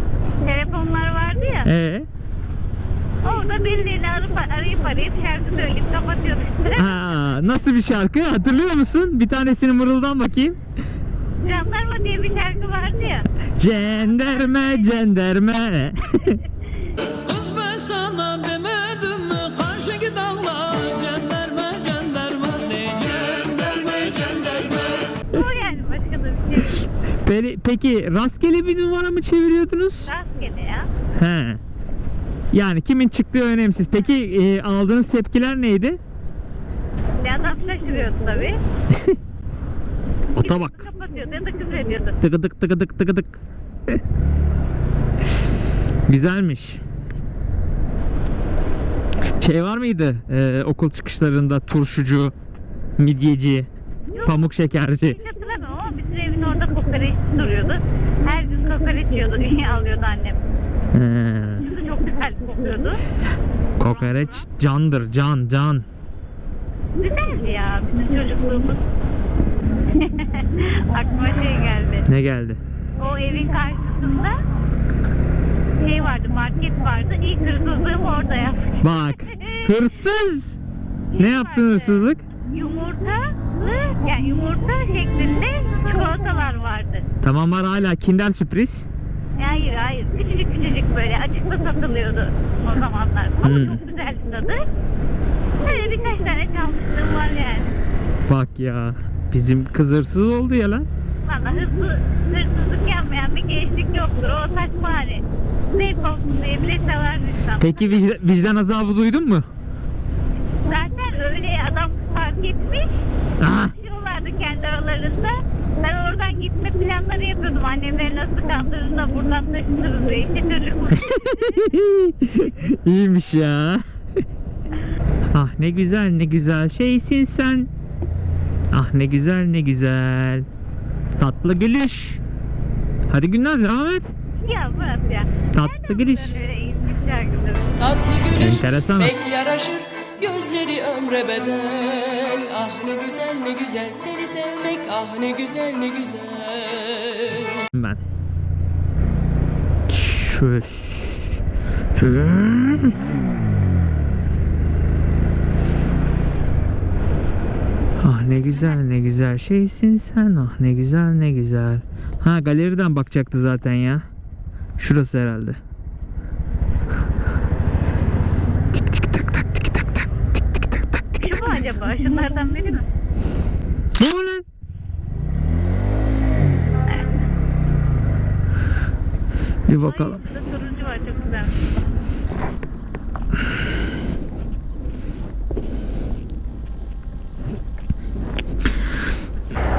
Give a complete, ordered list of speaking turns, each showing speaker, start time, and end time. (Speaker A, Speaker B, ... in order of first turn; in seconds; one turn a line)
Speaker A: 0.4-1.7
Speaker B: 1.6-2.1
Speaker A: 3.2-7.0
Speaker B: 6.8-10.6
Speaker A: 11.4-13.3
Speaker B: 13.6-16.4
Speaker A: 13.9-14.9
Speaker C: 17.2-25.2
Speaker A: 25.3-26.9
Speaker B: 27.2-30.1
Speaker A: 30.0-30.9
Speaker B: 31.2-31.6
Speaker B: 32.5-36.0
Speaker A: 37.2-38.6
Speaker B: 38.9-39.2
Speaker A: 40.3-42.1
Speaker B: 40.4-40.9
Speaker B: 42.2-44.0
Speaker B: 46.1-46.8
Speaker B: 49.4-52.3
Speaker B: 53.0-53.7
Speaker A: 54.1-54.4
Speaker B: 54.2-55.2
Speaker A: 55.1-60.4
Speaker B: 60.9-61.7
Speaker A: 61.6-63.0
Speaker B: 63.8-65.8
Speaker A: 63.8-64.5
Speaker A: 67.0-68.8
Speaker A: 69.9-72.1
Speaker B: 72.1-72.6
Speaker A: 73.0-74.4
Speaker A: 75.8-79.7
Speaker B: 78.8-80.6
Speaker A: 81.1-87.0
Speaker B: 81.2-82.2
Speaker B: 87.2-88.9
Speaker A: 89.4-94.6
Speaker B: 93.4-93.8
Speaker A: 95.6-97.7
Speaker B: 98.3-100.9
Speaker A: 101.3-108.0
Speaker B: 107.6-109.5
Speaker A: 110.6-112.9
Speaker B: 113.4-113.7
Speaker A: 113.7-121.5
Speaker B: 120.9-123.8
Speaker B: 125.3-127.7
Speaker B: 128.7-130.5
Speaker B: 131.2-132.2
Speaker B: 133.1-134.1
Speaker A: 134.4-137.8
Speaker B: 135.5-136.4
Speaker C: 137.8-147.6
Speaker B: 138.3-139.2
Speaker B: 147.7-148.0
Speaker B: 149.9-151.4
Speaker B: 152.0-153.0
Speaker B: 158.0-164.1
Speaker B: 164.8-165.6
Speaker B: 168.7-171.7
Speaker A: 171.2-172.9
Speaker B: 174.0-174.4
Speaker B: 179.7-180.2
Speaker A: 179.8-181.6